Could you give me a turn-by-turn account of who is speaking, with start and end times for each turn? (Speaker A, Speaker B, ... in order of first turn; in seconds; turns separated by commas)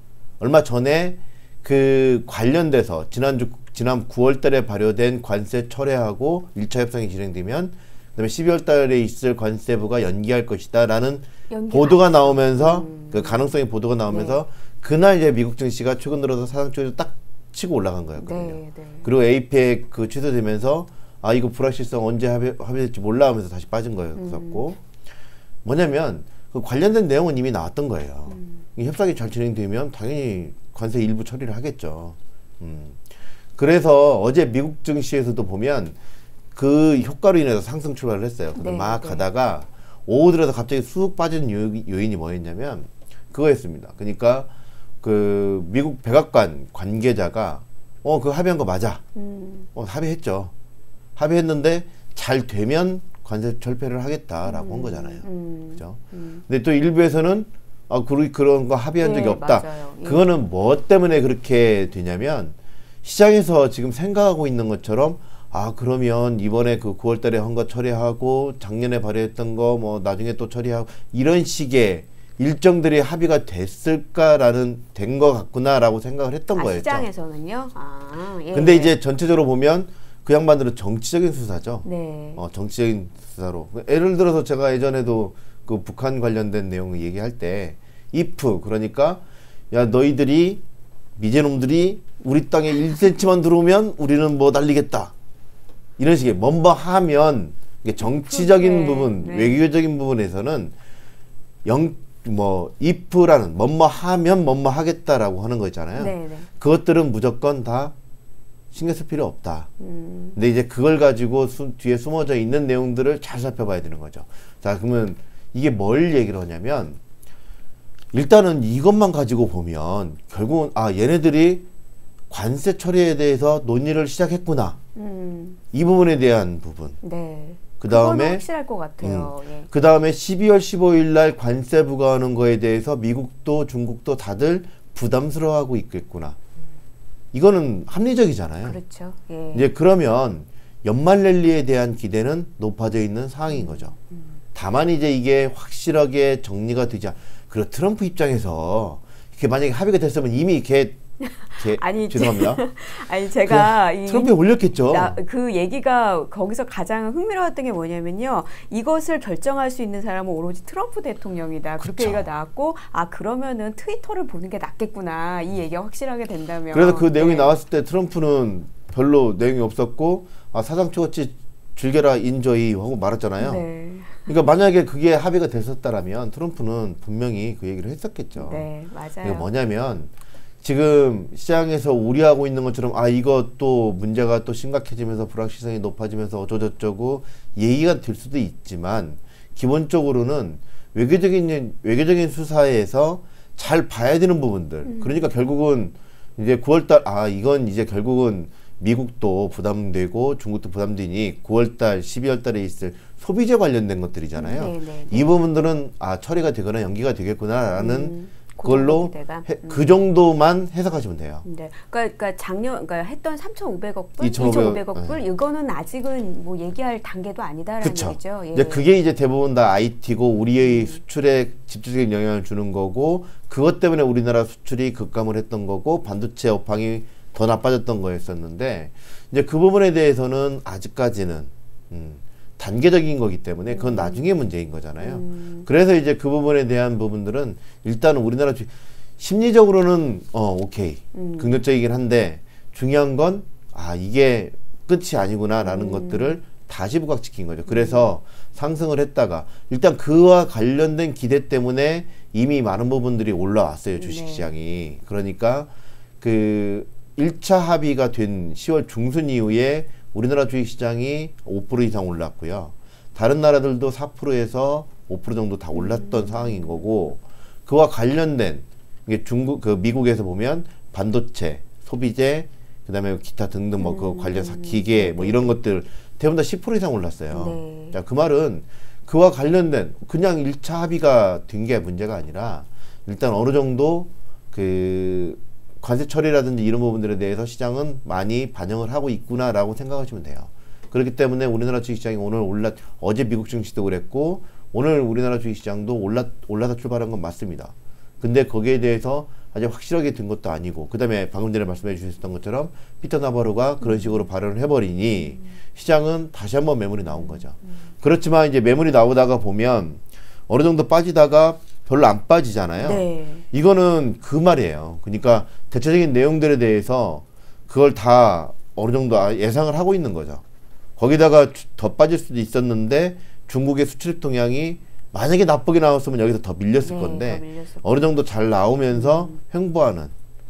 Speaker A: 0.4-24.8, Speaker B: 11.5-13.5, Speaker B: 14.1-14.4, Speaker B: 18.2-19.1, Speaker B: 24.1-24.6, Speaker A: 25.6-33.0, Speaker B: 28.3-28.6, Speaker A: 33.6-36.0, Speaker A: 36.5-44.5, Speaker B: 38.5-39.2, Speaker A: 45.0-49.0, Speaker B: 49.1-49.7, Speaker A: 49.7-50.5, Speaker A: 51.1-55.2, Speaker B: 54.4-56.4, Speaker A: 55.8-77.1, Speaker B: 59.0-60.3, Speaker B: 76.5-79.0, Speaker A: 78.5-81.8, Speaker B: 81.8-82.4, Speaker A: 82.4-90.6, Speaker A: 91.2-95.1, Speaker A: 96.0-100.7, Speaker B: 98.0-99.6, Speaker A: 101.6-107.9, Speaker B: 106.0-106.5, Speaker A: 108.7-109.7, Speaker B: 109.8-110.4, Speaker A: 110.3-117.0, Speaker A: 118.1-121.7, Speaker A: 122.3-124.8, Speaker B: 124.9-125.6, Speaker A: 125.7-127.0, Speaker B: 127.0-129.7, Speaker A: 127.8-128.4, Speaker A: 129.0-136.4, Speaker A: 137.3-138.8, Speaker B: 138.6-139.7, Speaker A: 139.5-143.9, Speaker B: 143.5-144.3, Speaker A: 144.5-151.0, Speaker B: 151.2-167.6, Speaker A: 151.5-152.6, Speaker A: 153.4-155.2, Speaker A: 161.8-162.3, Speaker A: 166.7-173.7, Speaker B: 173.4-174.3, Speaker A: 174.3-178.7, Speaker B: 178.3-179.5, Speaker A: 179.2-180.1, Speaker A: 180.6-211.4, Speaker B: 194.8-195.3, Speaker B: 204.3-205.3, Speaker B: 207.7-209.9, Speaker B: 211.4-218.9, Speaker A: 214.2-215.2, Speaker A: 217.8-320.4, Speaker B: 220.6-221.0, Speaker B: 233.7-234.3, Speaker B: 235.0-235.7, Speaker B: 241.1-241.6, Speaker B: 245.6-246.4, Speaker B: 247.7-248.1, Speaker B: 254.0-254.5, Speaker B: 265.7-266.8, Speaker B: 273.8-275.6, Speaker B: 277.3-278.0, Speaker B: 303.8-304.3, Speaker B: 307.1-307.7, Speaker B: 312.8-313.4, Speaker A: 321.0-330.1, Speaker B: 326.8-328.2, Speaker B: 328.9-329.4